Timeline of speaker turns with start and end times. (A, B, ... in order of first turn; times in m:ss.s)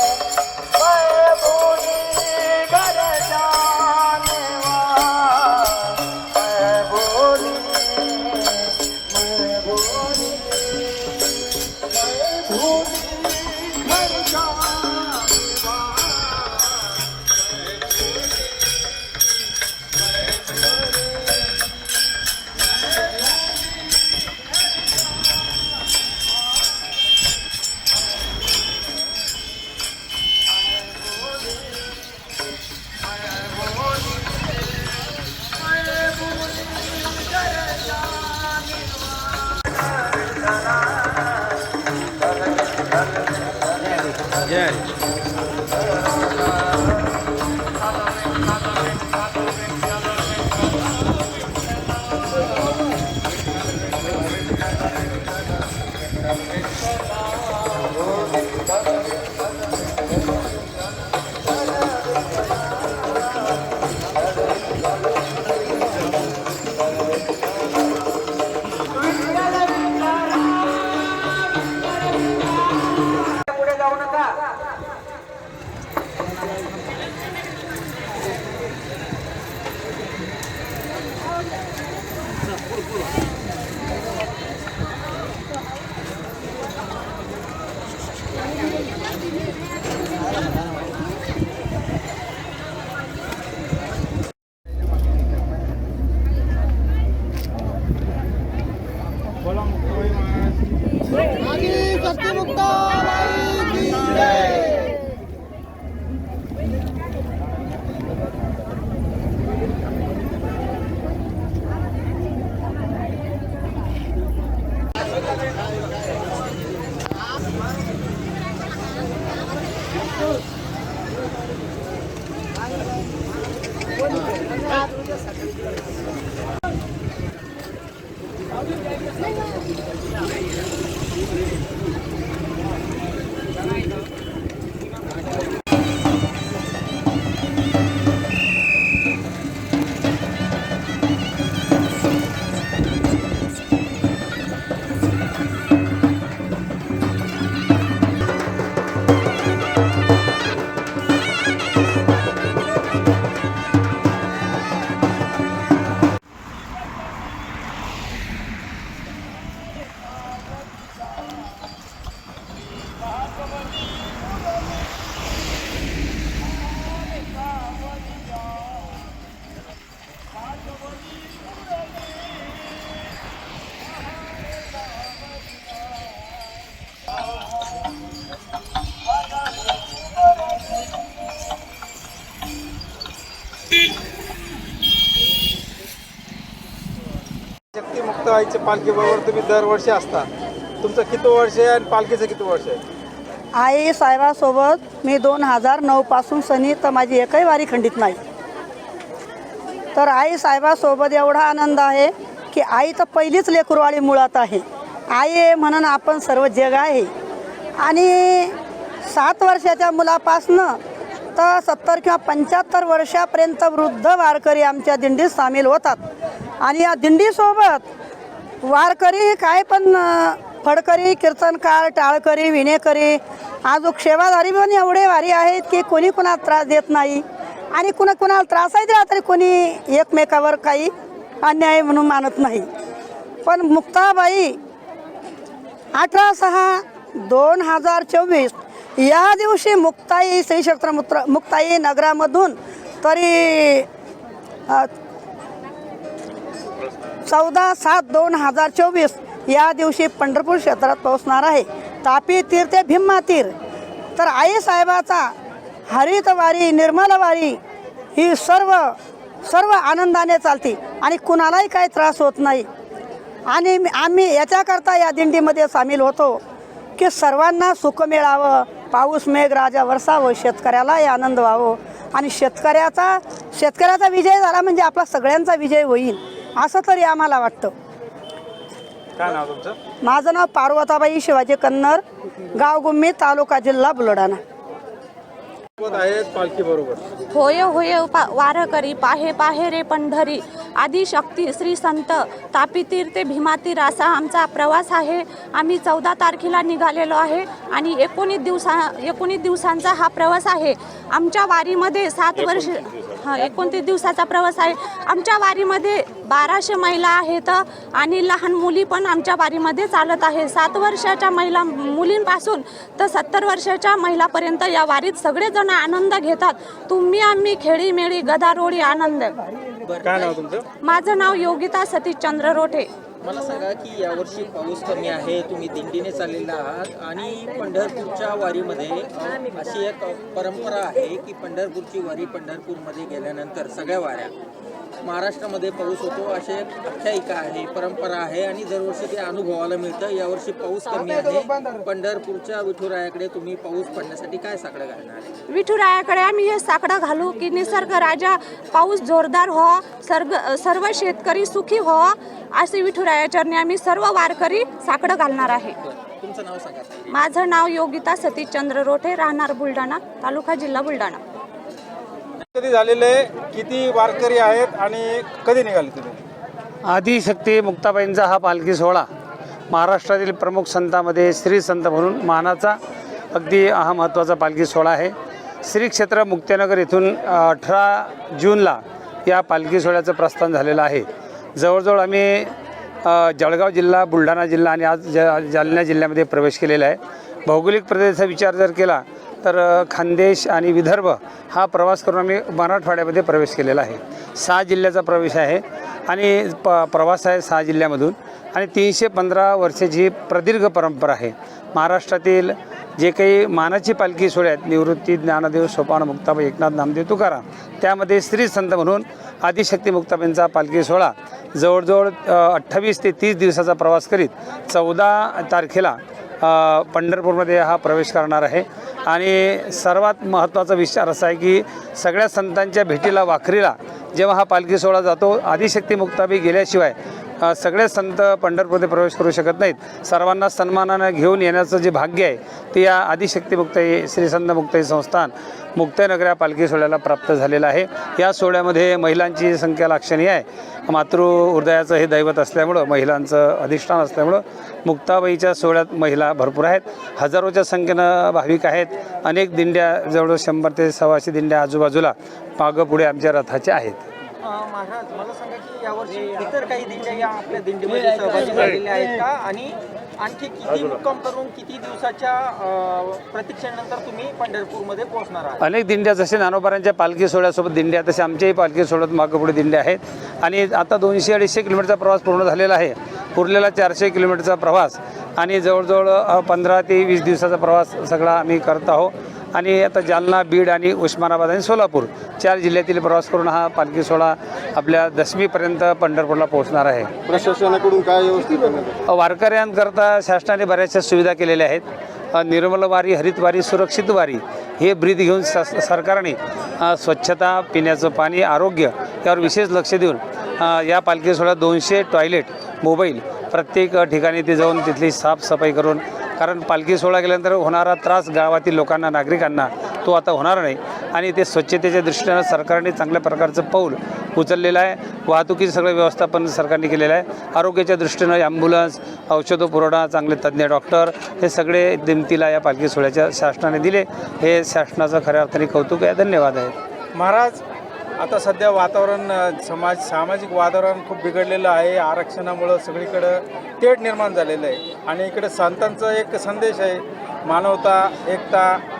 0:01.0-0:05.8 A
0:06.8-0:08.1 A
0:13.7-0:14.3 A
0:44.3-0:44.8 B
1:39.9-1:40.3 C
3:07.7-3:10.3 C
3:10.8-3:12.8 C
3:13.6-3:18.2 D
3:19.9-3:27.1 D
3:27.8-3:28.6 D
3:29.1-3:30.8 D
3:31.4-3:36.0 D
3:36.6-3:37.9 D
3:38.6-3:52.7 D
3:53.4-3:54.6 D
3:55.9-4:03.9 D
4:07.3-4:13.5 D
4:14.2-4:15.3 D
4:15.9-4:17.6 D
4:18.1-4:22.7 D
4:23.5-4:26.4 D
4:27.0-4:37.7 D
4:39.2-4:39.8 C
4:40.0-4:42.0 D
4:42.5-4:44.4 D
4:45.8-4:47.0 C
4:47.3-5:19.4 E
5:19.8-5:20.3 B
5:20.1-5:20.6 C
5:20.8-5:22.9 E
5:23.2-5:34.3 B
5:35.0-5:45.4 B
5:45.5-5:55.8 E
5:55.8-5:57.2 B
5:57.1-6:01.2 E
6:02.5-6:06.2 C
6:06.8-6:09.0 A
6:09.7-6:12.8 A
6:13.3-7:34.0 A
7:34.4-7:45.7 B
7:45.6-8:07.4 A
8:09.0-8:46.7 A
8:47.1-8:47.6 C
8:48.2-8:58.8 C